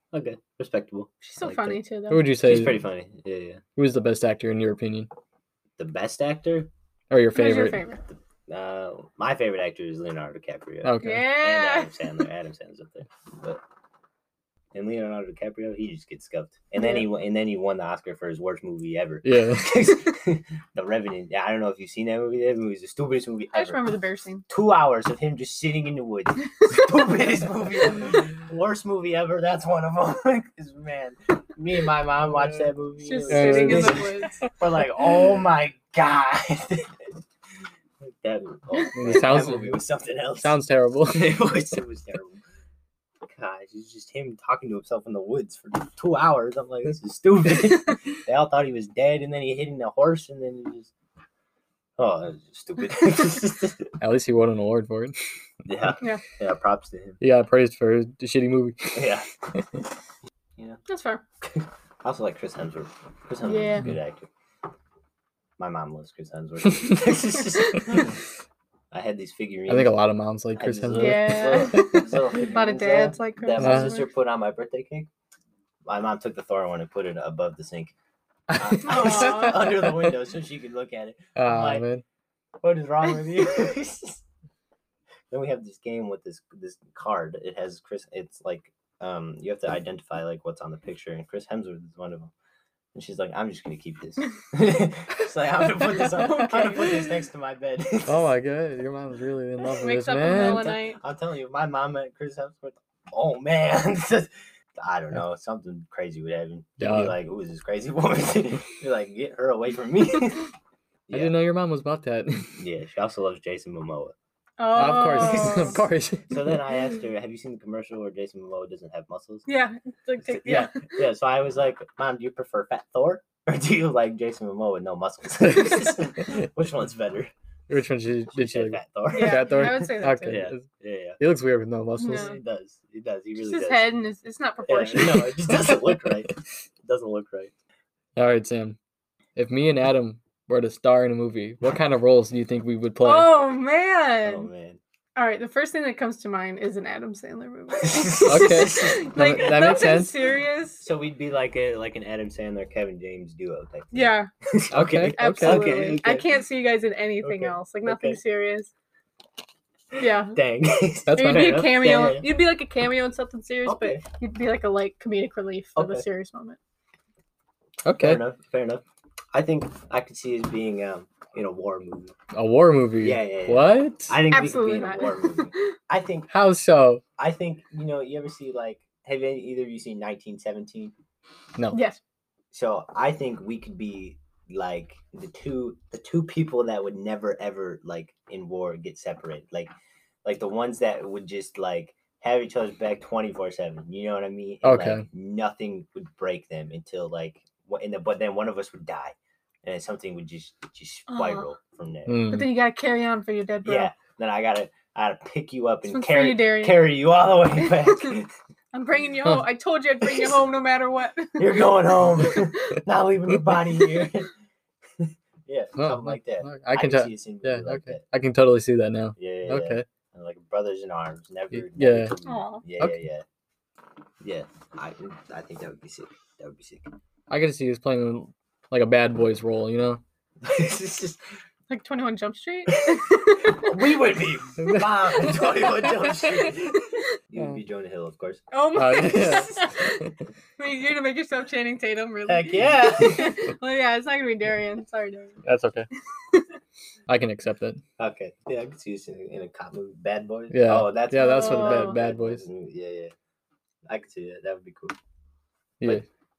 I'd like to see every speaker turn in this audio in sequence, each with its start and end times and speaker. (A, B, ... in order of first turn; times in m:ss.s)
0:00.1-0:03.6 A
0:01.2-0:02.4 B
0:02.1-0:02.8 C
0:03.8-0:05.1 C
0:05.8-0:06.7 A
0:07.1-0:07.8 C
0:07.3-0:08.0 B
0:08.1-0:13.6 A
0:10.8-0:11.3 C
0:11.0-0:12.1 B
0:14.7-0:23.8 A
0:16.8-0:17.0 B
0:19.2-0:19.9 C
0:23.5-0:24.4 B
0:24.5-0:37.0 A
0:33.0-0:34.4 B
0:33.3-0:34.2 C
0:38.0-0:42.4 A
0:39.0-0:39.8 C
0:40.4-0:41.4 C
0:43.3-0:50.9 A
0:52.0-0:53.9 A
0:54.0-0:55.2 C
0:55.6-0:57.2 A
0:57.2-0:59.8 C
0:58.9-0:59.3 A
1:00.9-1:01.2 B
1:01.4-1:04.3 A
1:03.5-1:03.9 B
1:05.6-1:08.2 A
1:08.9-1:10.0 A
1:09.7-1:12.1 C
1:10.6-1:15.1 A
1:10.9-1:14.1 B
1:13.6-1:14.0 C
1:15.9-1:17.9 A
1:18.5-1:19.5 C
1:18.6-1:21.8 A
1:18.8-1:19.7 B
1:21.4-1:22.0 C
1:22.6-1:24.2 A
1:25.3-1:32.3 A
1:32.9-1:38.2 A
1:36.1-1:37.0 B
1:38.1-1:40.8 C
1:39.6-1:41.0 B
1:40.3-1:50.5 A
1:46.8-1:47.1 C
1:51.1-1:51.4 A
1:51.1-1:52.5 C
1:52.6-1:54.1 A
1:54.6-1:55.8 B
1:54.8-1:56.5 C
1:55.3-1:55.7 A
1:56.3-1:59.5 A
1:59.5-2:01.0 B
2:00.2-2:07.3 A
2:07.7-2:10.7 C
2:08.3-2:09.7 A
2:09.1-2:10.4 B
2:10.2-2:11.2 A
2:11.2-2:12.3 C
2:12.0-2:12.4 B
2:12.0-2:14.0 A
2:13.4-2:15.4 B
2:14.6-2:17.5 A
2:15.7-2:16.0 C
2:18.2-2:18.8 C
2:19.4-2:23.3 C
2:23.0-2:24.5 B
2:24.2-2:24.8 A
2:25.2-2:30.8 B
2:27.8-2:29.1 A
2:28.3-2:30.2 C
2:30.8-2:36.3 A
2:33.9-2:34.3 B
2:34.7-2:36.0 C
2:35.1-2:38.7 B
2:37.2-2:38.2 A
2:40.0-2:40.4 B
2:40.3-2:42.3 A
2:41.1-2:41.7 C
2:41.1-2:46.6 B
2:43.7-2:44.0 A
2:45.8-2:46.1 A
2:47.8-2:48.2 C
2:48.0-2:52.1 A
2:52.3-2:54.2 C
2:53.0-2:56.3 A
2:54.3-2:55.7 B
2:56.3-2:57.0 C
2:57.2-3:00.9 A
3:01.7-3:02.0 B
3:02.5-3:09.7 A
3:10.2-3:22.3 A
3:14.6-3:15.0 C
3:21.1-3:21.5 B
3:22.1-3:22.5 C
3:22.3-3:23.9 B
3:23.6-3:28.3 A
3:25.9-3:26.9 B
3:27.6-3:28.2 B
3:28.7-3:31.5 B
3:31.4-3:34.3 A
3:35.0-3:38.0 A
3:35.8-3:39.8 C
3:39.2-3:43.2 A
3:41.5-3:42.2 C
3:42.3-3:42.6 B
3:44.2-3:46.9 A
3:47.3-3:50.0 C
3:50.4-3:51.2 A
3:51.7-3:53.8 B
3:52.8-3:58.4 A
3:54.6-3:55.3 C
3:58.5-4:00.0 B
3:58.7-4:00.2 C
4:00.6-4:05.4 B
4:02.3-4:03.4 A
4:05.4-4:05.9 C
4:07.1-4:07.8 C
4:08.0-4:13.1 A
4:10.5-4:12.4 C
4:11.1-4:12.0 B
4:13.9-4:15.0 A